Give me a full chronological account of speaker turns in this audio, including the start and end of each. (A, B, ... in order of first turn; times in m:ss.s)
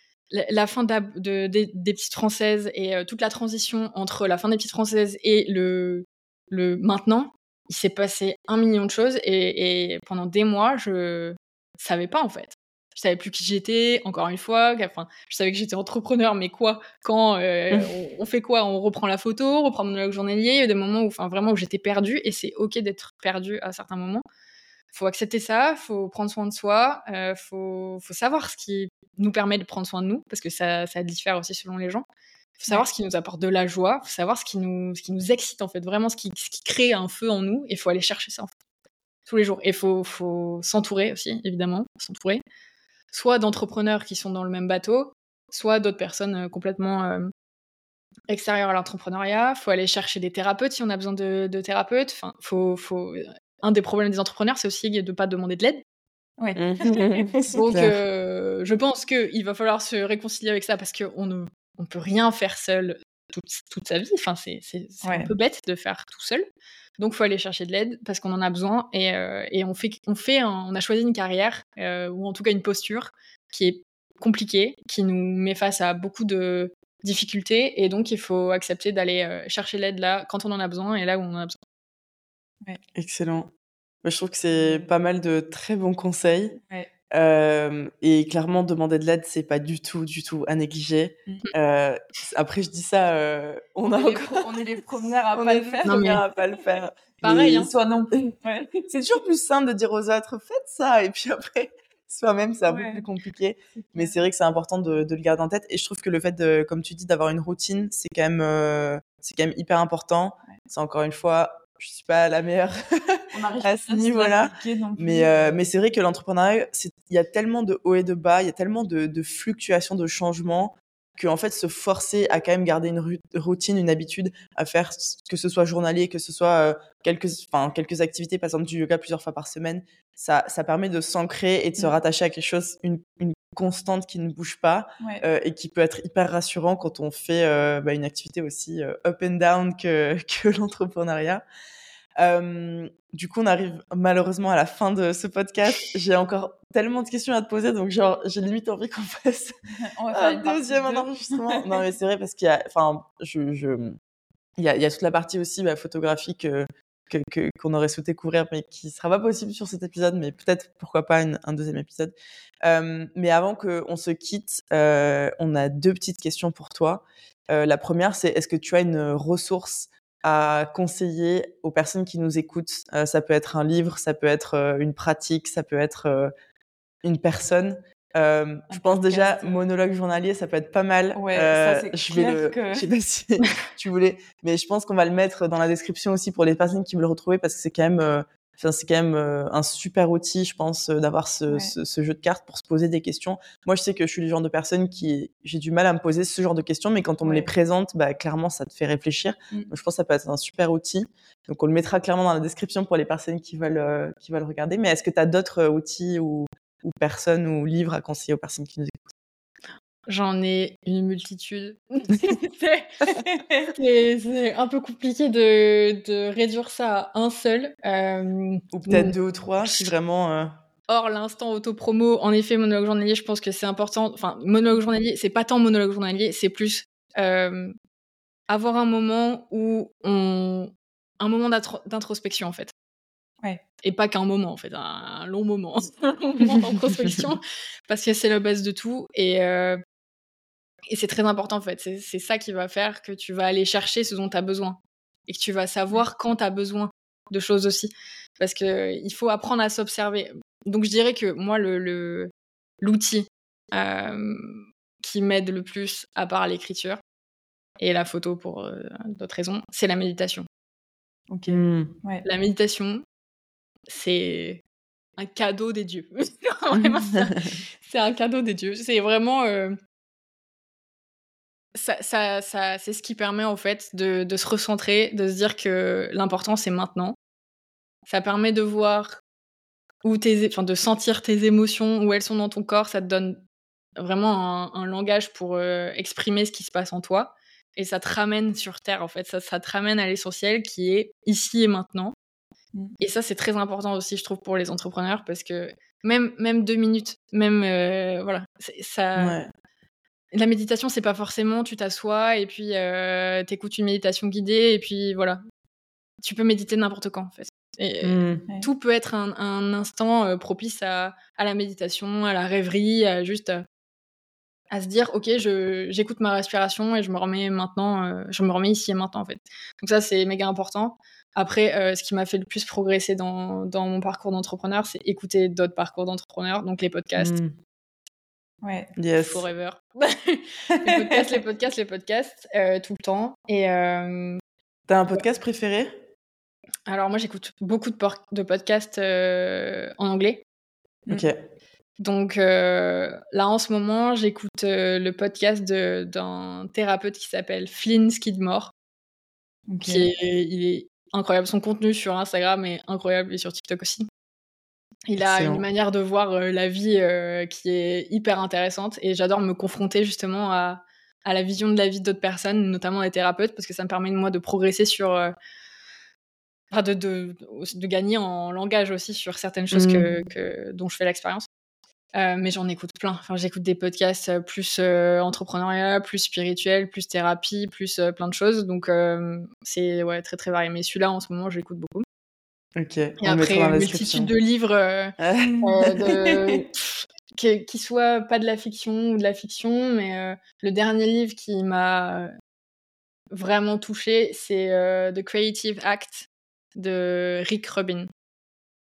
0:00.3-0:24.2 A
0:24.9-0:32.0 A
0:32.6-0:38.5 A
0:39.3-0:42.4 A
0:43.1-0:47.3 A
0:48.3-0:55.8 A
0:56.4-0:57.6 B
0:56.6-0:58.0 C
0:57.5-1:06.4 A
1:05.0-1:05.3 B
1:07.0-1:21.6 A
1:22.9-1:23.5 C
1:24.0-1:26.6 C
1:24.5-1:24.9 B
1:27.1-1:34.6 C
1:33.9-1:36.1 B
1:35.3-1:37.6 C
1:35.8-1:36.2 A
1:37.2-1:37.7 A
1:37.3-1:39.2 B
1:39.0-2:21.4 C
1:42.6-1:43.0 B
1:43.8-1:44.2 B
1:53.3-1:55.6 B
2:15.0-2:15.2 B
2:22.2-2:29.6 C
2:29.8-2:31.8 B
2:30.1-2:34.0 C
2:34.6-2:56.3 C
2:57.0-3:29.1 C
2:58.7-2:59.6 B
3:01.1-3:02.9 B
3:11.5-3:11.7 B
3:17.2-3:17.5 B
3:30.1-3:39.1 A
3:33.3-3:33.7 B
3:38.7-3:40.5 C
3:40.9-3:47.7 A
3:48.5-3:52.7 A
3:53.8-3:59.8 A
4:00.9-4:12.3 A
4:12.8-4:17.0 A
4:17.8-4:20.4 A
4:21.3-4:22.2 B
4:21.5-4:21.9 C
4:22.2-4:23.0 A
4:23.9-4:24.6 A
4:25.2-4:29.8 A
4:26.8-4:27.4 C
4:31.7-4:37.2 A
4:38.1-4:39.2 A
4:40.0-4:43.4 A
4:44.0-4:52.1 A
4:53.0-4:59.4 A
4:59.2-4:59.5 C
5:00.3-5:05.4 A
5:06.2-5:13.6 A
5:08.0-5:08.4 C
5:14.7-5:27.4 A
5:27.2-5:27.5 C
5:28.6-5:28.9 B
5:29.0-5:29.4 C
5:29.2-5:34.4 A
5:30.9-5:31.2 B
5:34.9-5:35.9 C
5:36.9-5:40.4 A
5:41.1-5:41.4 C
5:42.0-5:48.7 A
5:49.7-5:50.1 B
5:49.8-5:54.1 A
5:55.1-6:05.3 A
5:55.2-5:55.6 C
6:06.7-6:11.5 A
6:09.7-6:10.1 C
6:12.1-6:22.0 A
6:22.8-6:24.3 C
6:23.2-6:32.3 A
6:25.2-6:26.0 C
6:33.3-6:38.1 A